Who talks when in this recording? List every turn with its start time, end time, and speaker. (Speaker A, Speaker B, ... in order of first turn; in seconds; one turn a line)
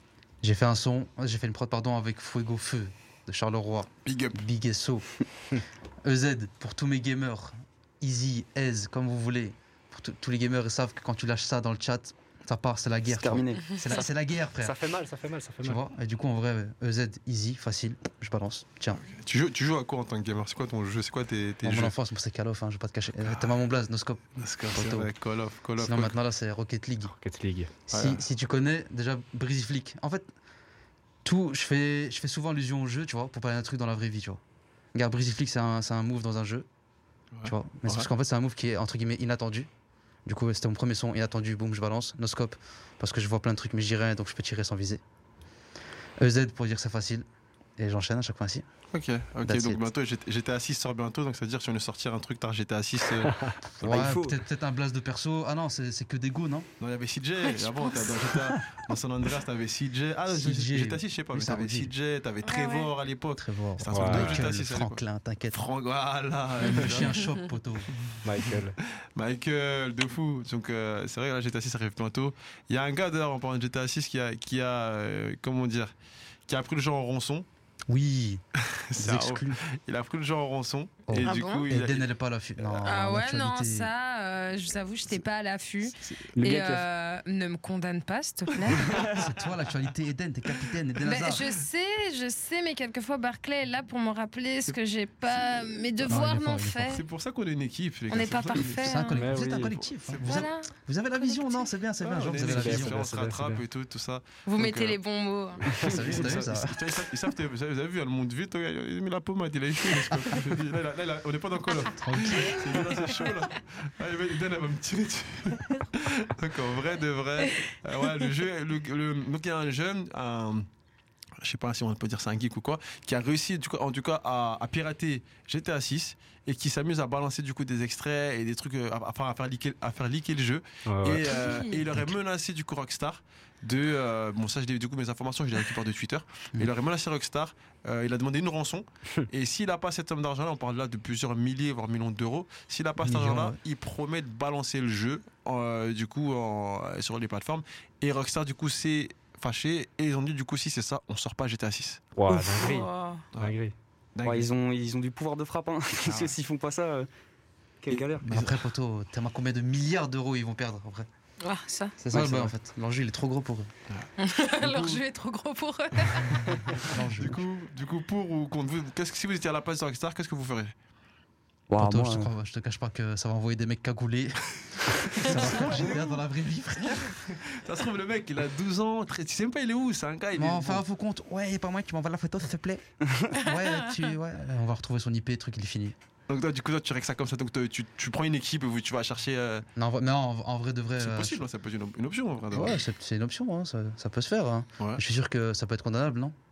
Speaker A: 0.4-5.0
Speaker B: 4.0-4.4
Speaker A: 6.0-14.8
Speaker C: 13.1-13.7
Speaker D: 14.6-15.8
Speaker A: 15.6-19.0
Speaker B: 18.9-21.9
Speaker A: 21.6-25.1
Speaker B: 23.2-23.6
Speaker B: 24.4-26.1
Speaker A: 25.8-27.1
Speaker D: 27.1-27.7
Speaker A: 27.9-30.3
Speaker B: 27.9-28.2
Speaker A: 31.2-34.4
Speaker A: 34.9-36.7
Speaker B: 37.3-38.1
Speaker A: 37.5-39.7
Speaker A: 40.2-45.0
Speaker A: 46.2-47.2
Speaker A: 47.8-48.6
Speaker B: 48.9-53.3
Speaker A: 49.4-49.8
Speaker D: 53.3-53.5
Speaker A: 53.8-56.7
Speaker C: 53.8-54.4
Speaker B: 56.8-67.3
Speaker E: 57.8-58.2
Speaker A: 60.3-61.9
Speaker E: 62.4-62.9
Speaker A: 63.4-65.6
Speaker D: 63.9-64.4
Speaker A: 66.6-67.9
Speaker D: 68.2-68.8
Speaker B: 69.2-75.9
Speaker B: 76.5-77.5
Speaker A: 77.9-78.4
Speaker B: 78.9-82.1
Speaker A: 79.0-79.6
Speaker A: 81.1-83.9
Speaker E: 81.2-81.7
Speaker B: 82.6-82.9
Speaker E: 82.8-89.0
Speaker C: 86.4-86.8
Speaker B: 88.7-89.3
Speaker A: 89.1-91.5
Speaker E: 91.0-97.0
Speaker A: 96.0-96.9
Speaker B: 96.9-100.5
Speaker E: 98.1-99.2
Speaker A: 98.8-103.0
Speaker D: 99.1-99.8
Speaker E: 100.2-101.6
Speaker B: 102.0-105.0
Speaker D: 102.4-103.6
Speaker E: 104.5-105.6
Speaker B: 105.7-120.7
Speaker A: 105.7-106.8
Speaker A: 111.9-112.6
Speaker B: 121.4-152.1
Speaker D: 130.9-131.3
Speaker E: 131.3-131.8
Speaker A: 143.0-143.6
Speaker D: 152.2-153.7
Speaker E: 152.3-153.2
Speaker B: 154.1-154.5
Speaker C: 154.2-157.1
Speaker B: 156.0-156.3
Speaker C: 157.8-158.2
Speaker B: 157.9-158.7
Speaker A: 158.3-161.1
Speaker E: 161.4-162.0
Speaker A: 162.0-163.7
Speaker C: 162.1-162.5
Speaker B: 163.9-165.0
Speaker E: 164.2-166.9
Speaker B: 166.7-170.7
Speaker A: 166.9-167.4
Speaker C: 171.7-172.3
Speaker A: 171.8-177.1
Speaker B: 175.2-176.1
Speaker B: 176.9-180.8
Speaker A: 180.3-182.8
Speaker A: 183.3-185.9
Speaker E: 183.4-183.7
Speaker B: 186.3-189.7
Speaker A: 189.8-191.4
Speaker B: 191.0-192.8
Speaker A: 192.5-196.3